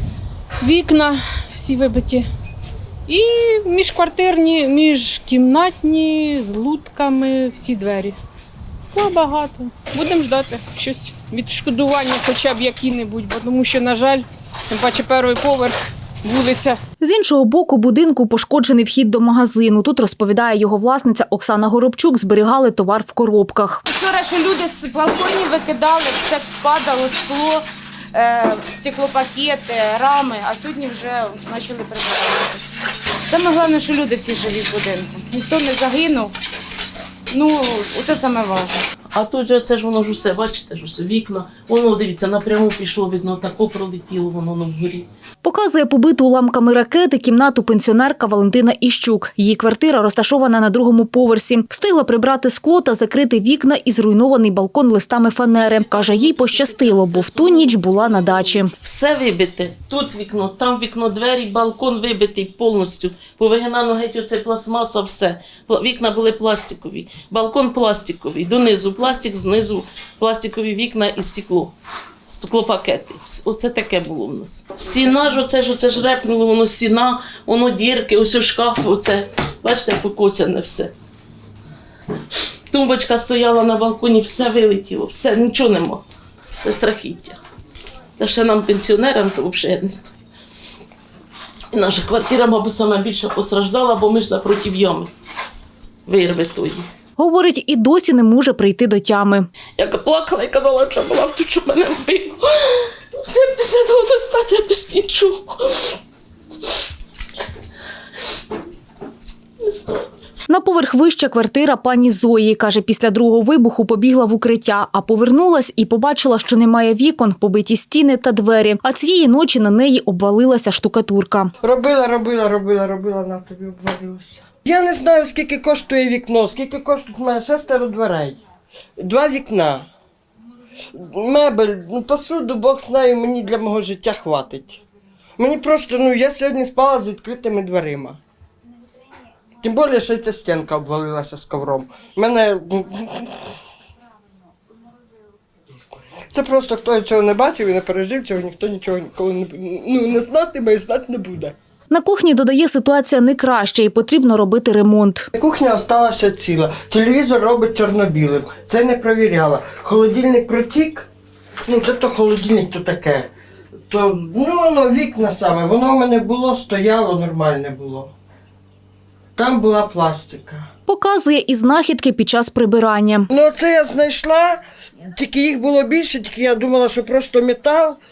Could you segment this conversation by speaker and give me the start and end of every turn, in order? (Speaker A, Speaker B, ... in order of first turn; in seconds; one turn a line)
Speaker A: 0.6-2.3
Speaker A: 3.1-8.1
Speaker A: 8.8-16.8
Speaker B: 17.0-23.8
Speaker C: 23.9-32.6
Speaker C: 33.3-36.3
Speaker C: 37.3-38.8
Speaker D: 39.1-45.1
Speaker B: 45.4-58.7
Speaker D: 55.9-80.9
Speaker D: 82.7-86.0
Speaker D: 86.6-87.4
Speaker D: 88.2-90.1
Speaker D: 91.7-95.1
Speaker D: 96.0-96.9
Speaker B: 97.2-99.5
Speaker D: 99.8-106.0
Speaker D: 109.6-110.1
Speaker B: 110.5-121.5
Speaker E: 121.6-128.4
Speaker E: 129.0-129.9
Speaker E: 130.9-134.8
Speaker E: 135.4-138.2
Speaker E: 139.6-143.4
Speaker E: 146.3-151.5
Speaker B: 151.9-155.3
Speaker E: 155.3-161.1
Speaker E: 161.6-163.3
Speaker E: 163.9-168.1
Speaker E: 169.3-170.7
Speaker B: 170.9-173.3
Speaker E: 173.3-174.6
Speaker E: 175.1-178.0